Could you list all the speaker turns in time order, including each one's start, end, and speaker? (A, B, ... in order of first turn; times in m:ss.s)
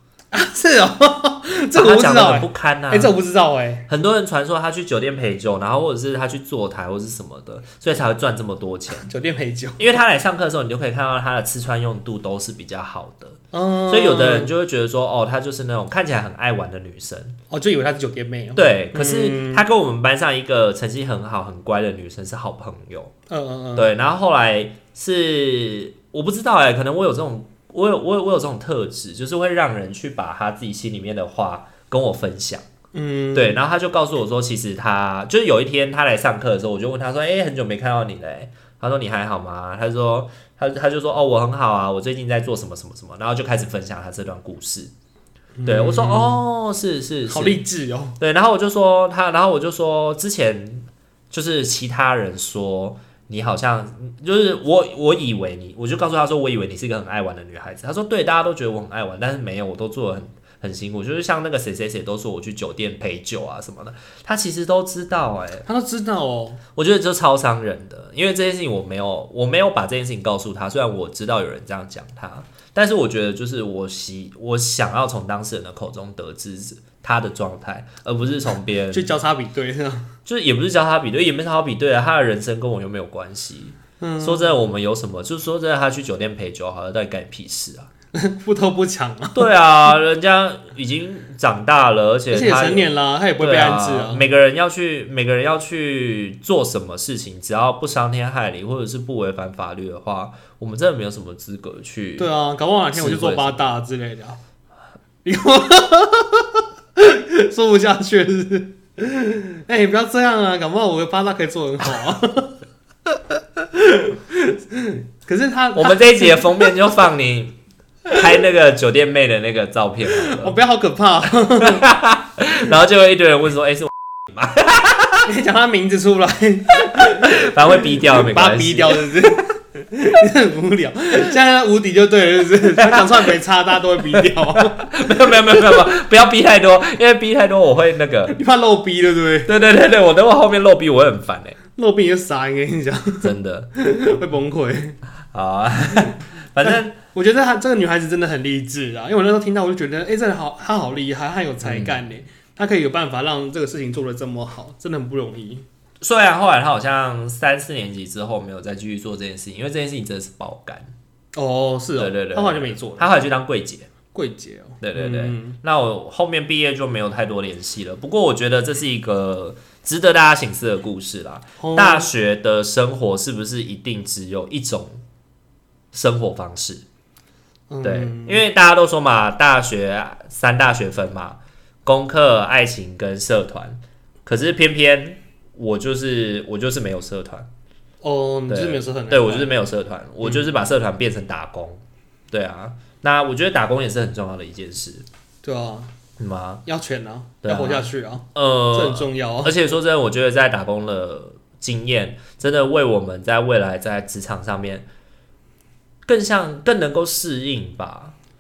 0:00.3-0:03.9 A
0:01.8-0:03.1 B
0:03.9-0:09.1 B
0:09.0-0:09.8 A
0:09.8-0:17.4 B
0:13.5-0:14.5 A
0:17.5-0:19.6 A
0:18.6-0:23.1 B
0:23.3-0:23.9 A
0:23.8-0:32.6 B
0:32.9-0:33.6 A
0:33.3-0:44.9 B
0:45.6-0:46.4 A
0:45.7-0:47.6 B
0:47.3-0:48.2 A
0:48.2-1:05.6 B
1:05.7-1:06.6 A
1:06.8-1:19.1 B
1:18.9-1:20.1 A
1:20.3-1:27.9 B
1:24.0-1:24.6 A
1:28.1-1:29.5 A
1:29.4-1:42.3 B
1:32.3-1:34.2 A
1:42.2-1:44.4 A
1:42.9-1:43.6 B
1:45.2-1:56.7 A
1:55.8-2:00.6 B
2:00.1-2:01.9 A
2:01.6-2:05.3 B
2:05.3-2:14.9 A
2:06.8-2:09.2 B
2:12.8-2:13.4 B
2:14.2-2:18.4 B
2:18.3-2:19.5 A
2:19.5-2:21.6 B
2:21.8-2:25.0 A
2:23.2-2:23.7 B
2:25.3-2:27.0 B
2:26.6-2:35.7 A
2:31.6-2:32.0 B
2:36.0-2:40.9 B
2:41.4-2:43.1 A
2:42.0-2:43.9 B
2:44.1-2:45.6 A
2:44.8-2:55.0 B
2:51.6-2:52.1 A
2:55.9-2:56.8 B
2:57.7-2:58.4 A
2:57.8-3:07.5 B
3:08.0-3:09.5 A
3:08.5-3:15.0 B
3:15.4-3:15.9 A
3:16.2-3:16.6 B
3:16.7-3:19.6 A
3:17.4-3:24.9 B
3:26.1-3:28.2 B